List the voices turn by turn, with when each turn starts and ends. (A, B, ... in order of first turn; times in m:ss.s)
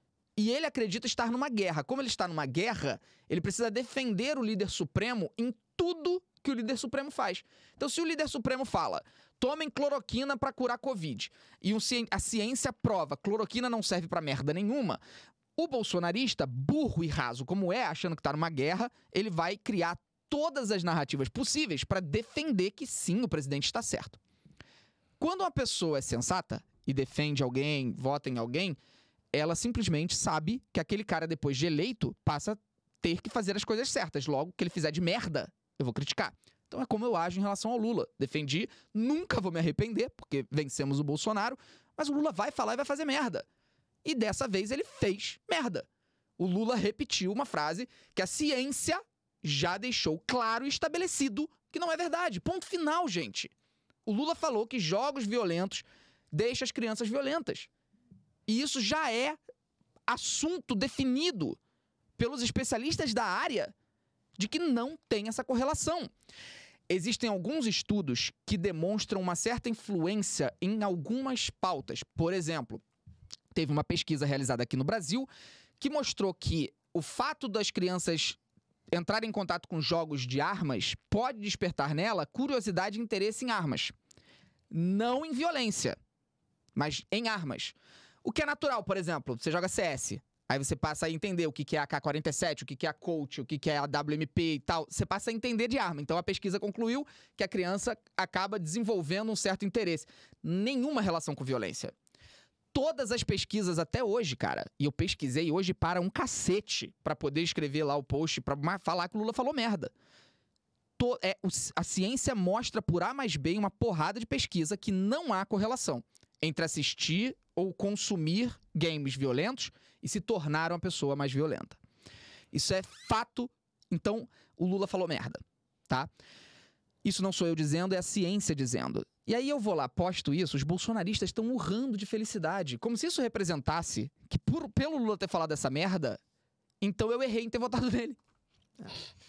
0:00.4-0:15.0 A
0:15.6-0:24.2 A
0:25.2-0:28.8 A
0:29.3-0:43.4 A
0:44.0-0:45.8 A
0:46.4-0:53.5 A
0:54.0-0:57.7 A
0:58.5-0:59.4 A
1:00.1-1:01.6 A
1:02.2-1:03.7 A
1:04.4-1:06.1 A
1:06.9-1:12.8 A
1:13.5-1:15.3 A
1:15.8-1:18.4 A
1:18.9-1:23.9 A
1:24.7-1:26.0 A
1:26.8-1:41.9 A
1:42.7-1:49.9 A
1:51.0-2:01.8 A
2:02.5-2:06.1 A
2:07.0-2:16.2 A
2:16.8-2:18.2 A